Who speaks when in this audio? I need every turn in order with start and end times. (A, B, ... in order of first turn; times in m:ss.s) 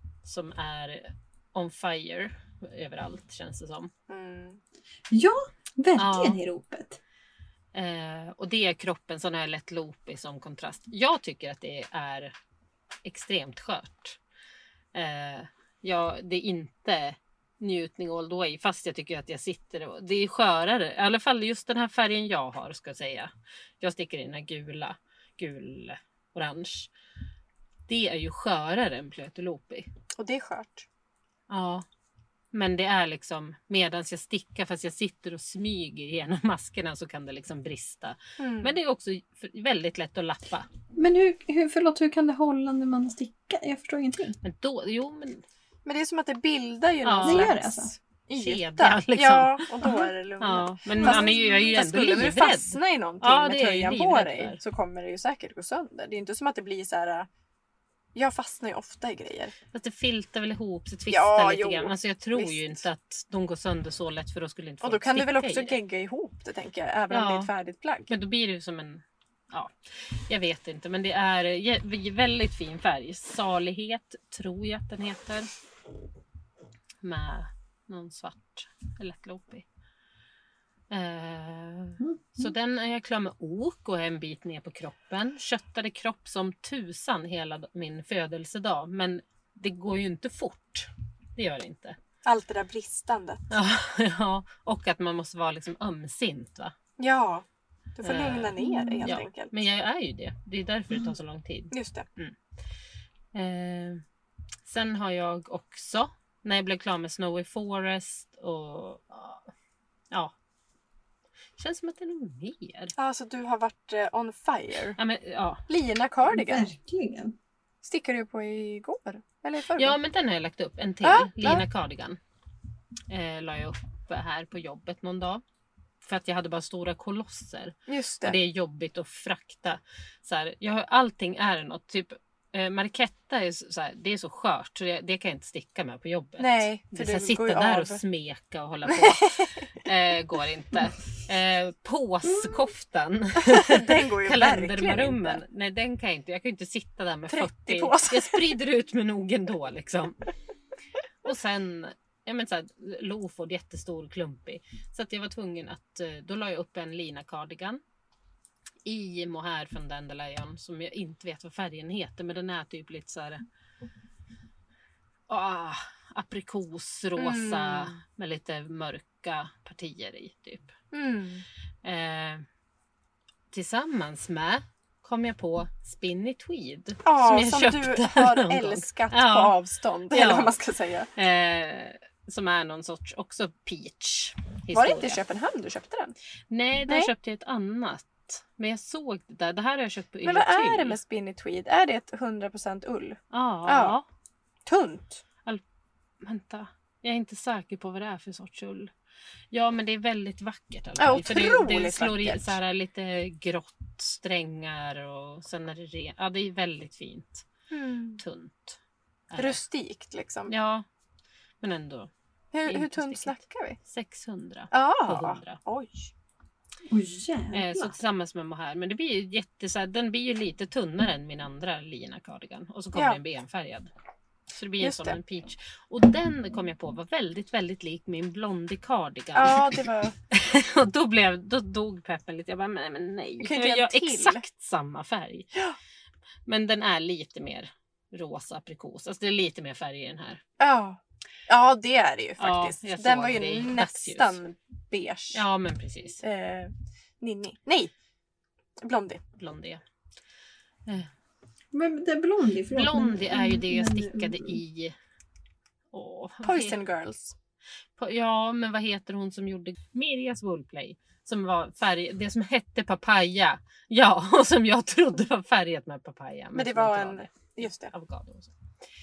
0:00.2-0:03.9 A
0:04.1-0:04.6 B
0:05.1-0:07.0 C
0:06.0-0:06.4 A
0:07.7-0:12.4 A
0:13.0-0:14.2 A
0:14.9-0:26.9 A
0:27.9-0:29.9 A
0:30.2-0:30.9 B
0:31.5-0:31.9 A
0:32.5-0:40.7 A
0:38.4-0:38.8 B
0:41.0-0:44.4 C
0:44.4-0:45.4 A
0:45.8-0:57.3 B
0:47.0-0:47.6 A
0:47.2-0:47.9 C
0:48.4-0:49.9 A
0:49.8-0:50.1 C
0:50.4-0:54.6 A
0:51.0-0:51.5 C
0:58.2-0:59.6 B
0:59.7-1:05.8 A
1:01.1-1:02.8 B
1:04.8-1:08.1 B
1:07.1-1:07.5 A
1:08.1-1:15.5 A
1:17.0-1:19.6 A
1:20.9-1:32.0 A
1:22.0-1:22.5 C
1:32.2-1:33.5 B
1:33.5-1:36.8 A
1:37.0-1:37.4 B
1:38.0-1:39.6 B
1:38.0-1:42.4 A
1:38.6-1:39.1 C
1:41.7-1:42.1 B
1:43.3-1:44.0 A
1:44.6-1:49.5 A
1:51.6-1:52.9 A
1:53.0-1:55.0 B
1:55.0-1:55.6 A
1:55.7-1:56.7 B
1:56.2-1:57.4 C
1:57.8-2:00.0 B
1:59.8-2:02.2 A
2:01.0-2:01.6 B
2:03.1-2:05.4 A
2:06.0-2:30.2 A
2:07.9-2:08.4 B
2:16.4-2:18.0 B
2:18.9-2:19.7 B
2:22.3-2:22.6 C
2:23.4-2:25.4 B
2:27.3-2:28.5 B
2:31.2-2:37.8 A
2:38.8-2:43.4 A
2:45.3-2:50.7 A
2:47.2-2:48.0 B
2:50.9-2:51.4 B
2:51.8-2:52.5 A
2:53.5-2:59.6 A
2:57.0-3:01.1 B
3:00.1-3:00.5 A
3:01.2-3:05.2 A
3:04.7-3:06.2 B
3:06.5-3:11.0 A
3:10.2-3:14.0 B
3:13.3-3:14.1 A
3:14.7-3:15.2 B
3:16.2-3:18.9 A
3:19.5-3:27.5 A
3:21.0-3:22.6 B
3:27.7-3:28.2 B
3:28.2-3:28.8 A
3:29.3-3:29.6 A
3:29.4-3:30.5 B
3:30.5-3:30.9 A
3:31.6-3:32.1 A
3:32.5-3:33.8 B
3:32.7-3:35.6 A
3:34.7-3:36.1 B
3:36.9-3:38.0 C
3:37.5-3:43.9 A
3:44.5-3:55.5 A
3:44.8-3:45.2 B
3:49.4-3:50.2 B
3:53.4-3:54.4 B
3:56.5-4:00.4 A
4:00.6-4:05.4 B
4:02.4-4:04.4 A
4:05.3-4:06.2 A
4:06.2-4:07.9 B
4:08.8-4:09.2 B
4:09.4-4:09.8 A
4:11.7-4:14.6 C
4:12.7-4:15.0 A
4:15.9-4:16.8 A
4:16.4-4:17.4 B
4:18.0-4:28.5 A
4:26.5-4:27.9 B